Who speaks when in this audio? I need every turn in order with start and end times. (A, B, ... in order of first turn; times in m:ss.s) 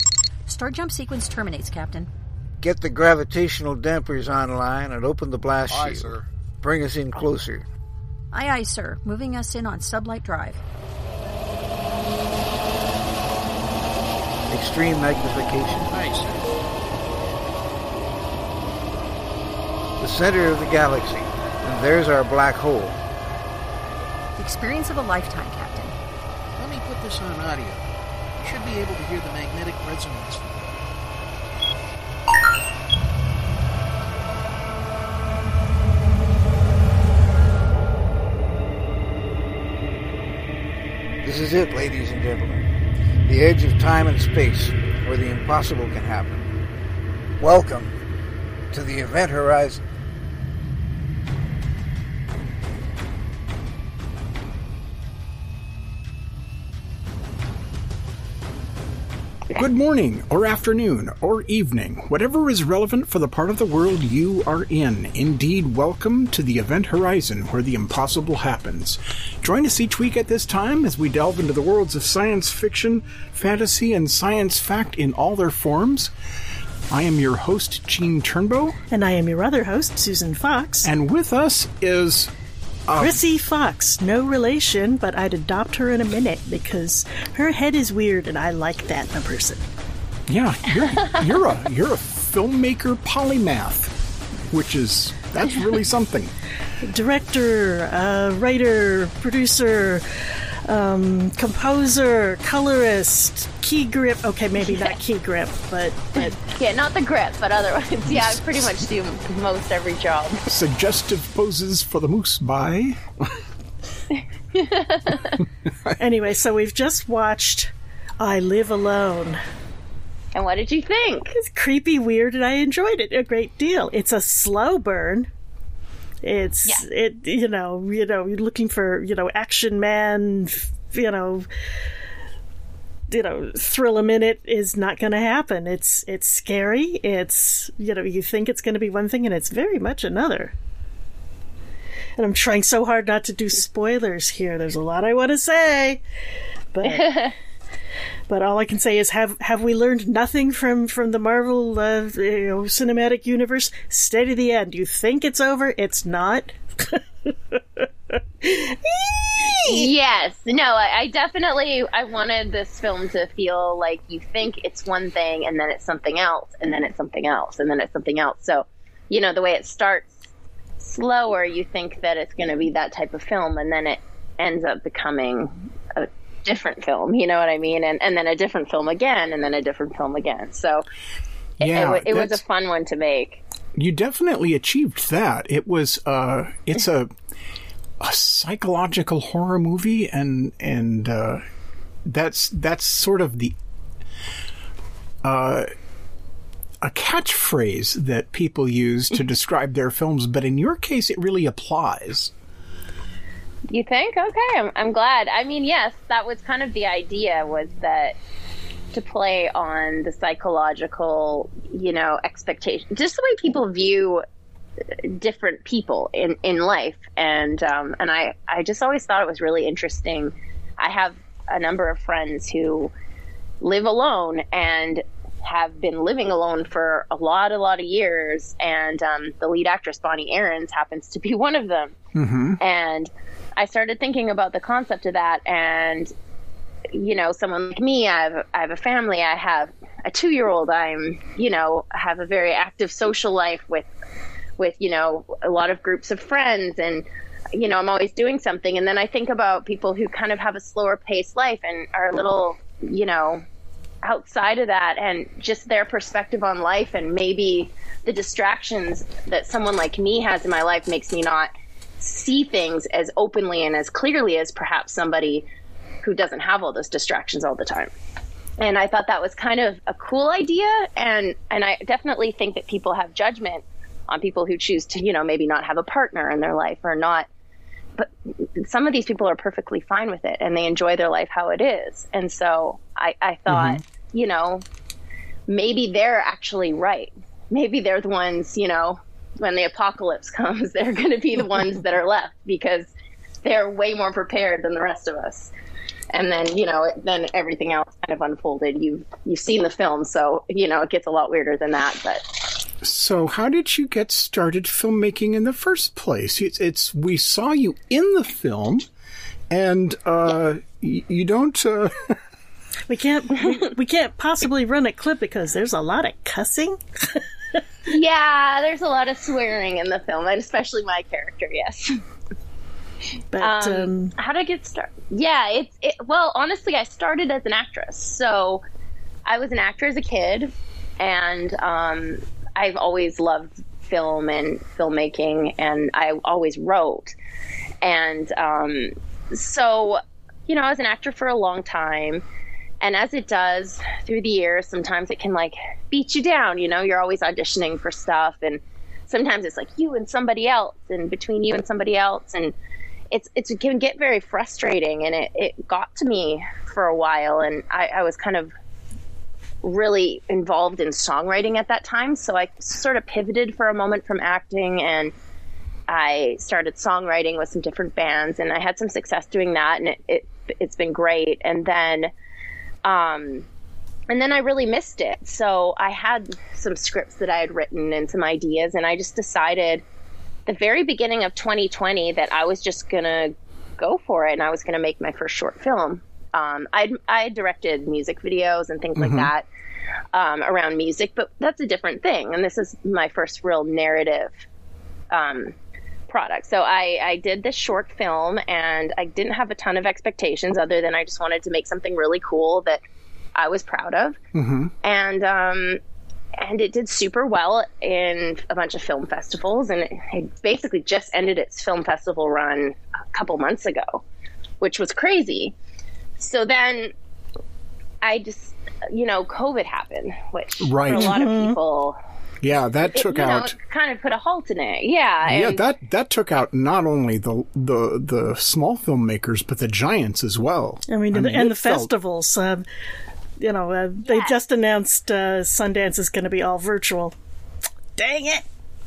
0:00.5-0:02.1 A
0:02.6-0:07.7 B
0:05.7-0:06.2 C
0:08.3-0:10.6 A
0:14.5-0:16.0 B
0:15.8-0:16.6 C
0:20.0-0:23.0 B
0:24.4-0:26.0 A
0:26.6-0:27.9 C
0:28.4-0:30.7 C
0:41.2-0:42.7 B
0:43.2-0:46.5 B
0:47.4-0:47.9 B
0:48.7-0:49.8 B
0:59.6-1:16.1 D
1:16.9-1:18.8 D
1:18.9-1:20.9 E
1:20.8-1:22.3 D
1:22.9-1:23.2 D
1:23.0-1:29.6 E
1:30.3-1:36.3 D
1:36.8-1:40.0 E
1:40.7-1:46.4 E
1:46.2-1:50.4 F
1:48.0-1:48.8 D
1:50.5-1:53.0 D
1:54.5-1:55.4 F
1:56.0-1:59.4 E
2:00.4-2:01.4 F
2:01.4-2:05.3 E
2:06.2-2:11.5 E
2:13.1-2:20.5 E
2:22.2-2:26.0 E
2:26.7-2:27.3 E
2:26.8-2:27.3 F
2:28.3-2:37.9 E
2:38.4-2:39.9 E
2:39.6-2:50.2 F
2:50.8-3:00.8 F
3:01.6-3:02.4 D
3:01.6-3:03.4 F
3:03.8-3:07.1 D
3:08.0-3:11.4 D
3:12.0-3:13.6 D
3:15.2-3:15.7 D
3:16.8-3:22.3 D
3:23.7-3:28.2 F
3:28.9-3:34.2 F
3:35.0-3:42.9 F
3:43.6-3:52.0 F
3:52.2-3:52.6 D
3:52.6-3:56.1 F
3:56.9-4:03.9 F
4:04.6-4:13.4 F
4:14.0-4:25.5 F
4:26.0-4:27.9 F
4:28.6-4:37.3 F
4:38.0-4:44.6 F
4:43.5-4:43.8 D
4:45.5-4:52.9 F
4:53.4-4:55.5 F
4:56.1-5:02.3 F
5:02.8-5:08.9 D
5:09.5-5:12.2 D
5:12.9-5:17.2 E
5:17.9-5:22.0 F
5:23.3-5:24.1 E
5:23.4-5:28.6 F
5:29.3-5:37.2 F
5:37.8-5:42.2 F
5:42.8-5:52.6 F
5:53.1-5:58.5 F
5:59.6-6:05.1 F
6:05.9-6:12.1 F
6:12.8-6:13.5 F
6:14.1-6:19.8 F
6:20.5-6:29.4 F
6:29.0-6:29.3 D
6:30.1-6:34.4 F
6:35.1-6:35.6 F
6:36.1-6:42.8 F
6:43.4-6:44.2 F
6:44.3-6:44.7 D
6:44.8-6:45.8 F
6:46.4-6:54.0 F
6:54.6-6:55.6 F
6:56.2-6:56.9 F
6:58.0-7:02.0 F
7:00.6-7:01.1 D
7:01.0-7:01.6 E
7:02.4-7:03.6 D
7:02.9-7:05.6 F
7:05.3-7:11.9 D
7:10.9-7:12.6 E
7:13.4-7:17.2 E
7:14.0-7:14.4 F
7:18.0-7:18.4 E